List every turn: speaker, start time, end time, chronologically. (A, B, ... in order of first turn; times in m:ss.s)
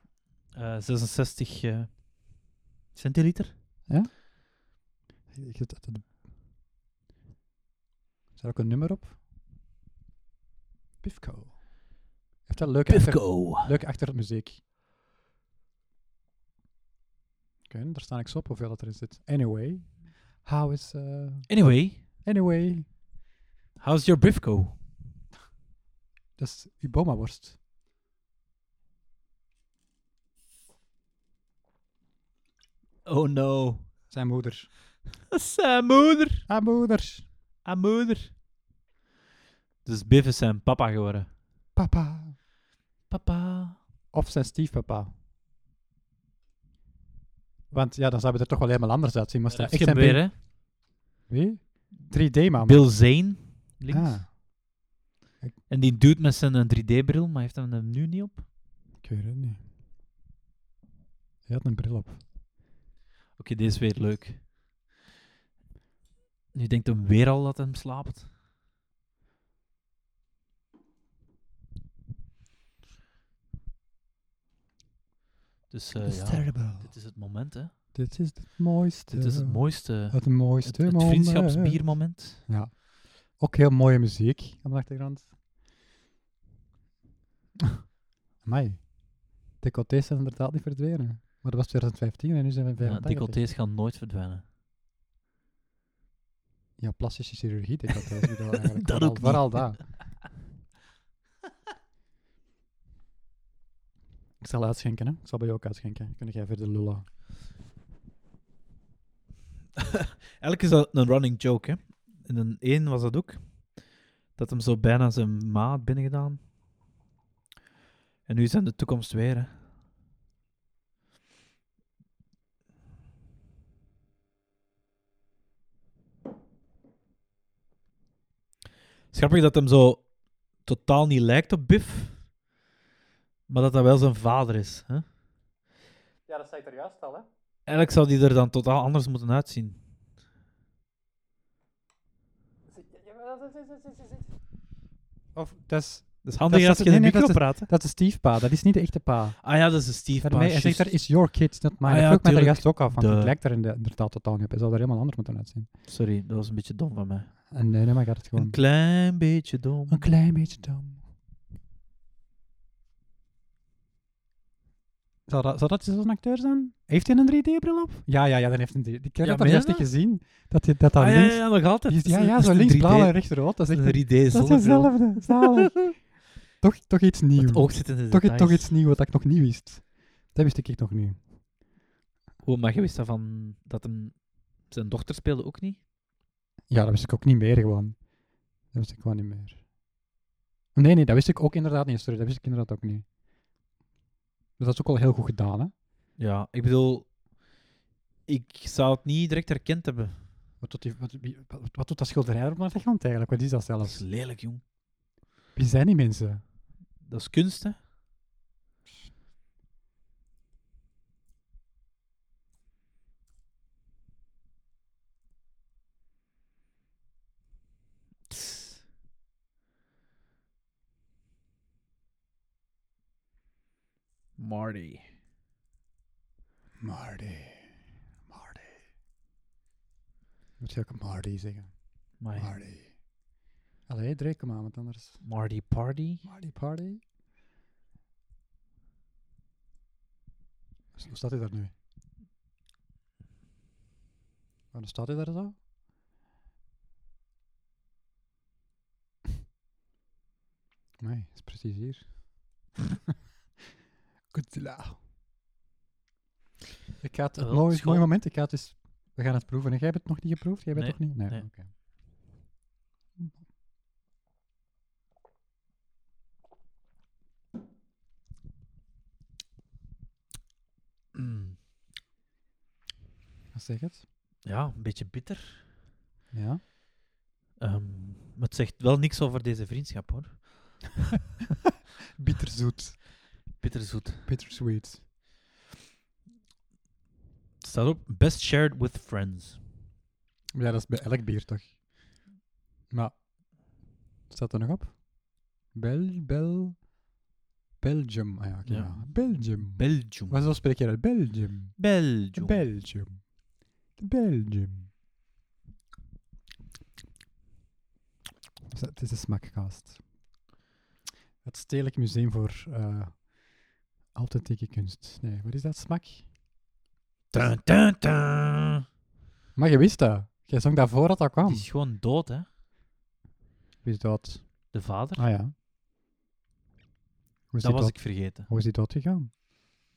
0:00.5-0:02.0 A
0:03.0-0:03.5 A
0:03.9-0:04.1 B
0:05.3-0:06.1 B
0:08.4-0:09.2 B
0:11.0-0:11.7 B
0:12.4-0:14.6 B
0:12.9-0:13.7 A
0:17.7-0:21.5 B
0:21.5-0:22.0 A
0:22.2-0:22.9 B
0:23.8-0:24.8 A
0:26.4-0:27.6 B
0:33.1-0:33.9 A
0:34.1-0:34.7 B
0:35.3-0:36.4 A
0:36.5-0:37.3 B
0:37.6-0:38.3 A
0:39.8-0:41.3 A
0:41.8-0:42.4 B
0:43.1-0:43.8 A
0:44.1-0:45.1 B
0:47.7-0:50.3 B
0:49.5-0:50.3 A
0:51.3-0:52.8 B
0:52.6-0:54.2 A
0:53.9-0:54.3 B
0:55.7-0:58.4 A
0:59.0-0:59.6 B
1:01.5-1:02.2 B
1:03.4-1:04.4 A
1:06.5-1:08.3 A
1:15.7-1:17.7 A
1:15.9-1:16.9 B
1:17.9-1:21.8 B
1:19.1-1:22.4 A
1:22.4-1:25.3 B
1:28.4-1:33.4 B
1:32.8-1:34.4 A
1:36.8-1:39.9 B
1:38.8-1:39.9 A
1:44.4-1:47.1 B
1:49.8-1:53.4 A
1:54.4-1:56.4 A
1:58.3-1:59.5 A
2:09.1-2:10.1 A
2:10.6-2:12.2 A
2:13.5-2:15.0 A
2:16.3-2:17.3 B
2:17.7-2:19.8 A
2:22.7-2:24.2 B
2:25.4-2:29.4 B
2:26.2-2:27.7 A
2:29.4-2:31.0 A
2:30.2-2:35.7 B
2:31.8-2:33.3 A
2:35.9-2:37.3 A
2:37.5-2:38.6 B
2:38.3-2:40.0 A
2:39.9-2:41.0 B
2:45.3-2:56.1 B
2:49.2-2:49.9 A
2:51.0-2:53.2 A
2:53.7-2:55.9 A
2:56.6-3:01.2 B
2:57.4-2:58.7 A
3:02.4-3:05.8 A
3:06.7-3:08.0 B
3:08.7-3:09.6 B
3:10.8-3:13.0 B
3:14.6-3:15.7 B
3:16.2-3:17.1 A
3:18.3-3:20.1 A
3:20.6-3:24.0 B
3:23.8-3:24.6 A
3:25.6-3:26.4 B
3:27.0-3:27.8 A
3:38.3-3:38.8 A
3:44.4-3:45.0 A
3:46.8-3:47.7 B
3:48.3-3:48.7 B
3:50.6-3:51.7 B
3:52.2-3:52.5 A
3:52.4-3:52.9 B
3:53.9-3:55.2 B
3:55.2-3:56.2 A
3:56.2-3:57.0 B
4:01.0-4:01.7 B
4:04.7-4:05.6 B
4:11.0-4:12.2 B
4:14.3-4:15.0 B
4:17.0-4:21.7 B
4:17.4-4:18.1 A
4:20.8-4:21.5 A
4:31.1-4:31.6 A
4:33.5-4:34.0 B
4:34.4-4:35.6 A
4:36.3-4:36.6 B
4:37.6-4:40.8 A
4:42.2-4:43.0 B
4:43.6-4:44.3 A
4:44.2-4:45.0 B
4:47.6-4:49.6 A
4:50.6-4:51.7 B
4:52.9-4:53.2 B
4:54.3-4:55.0 B
4:55.7-4:56.8 B
4:57.8-5:03.3 B
4:58.7-5:00.4 A
5:01.8-5:02.6 A
5:04.0-5:04.9 B
5:08.7-5:10.0 B
5:11.4-5:13.3 B
5:14.1-5:16.2 B
5:17.3-5:18.8 A
5:19.6-5:21.6 B
5:21.4-5:22.5 A
5:23.8-5:24.5 B
5:24.7-5:25.2 A
5:25.2-5:25.5 B
5:27.5-5:29.3 B
5:27.6-5:28.5 A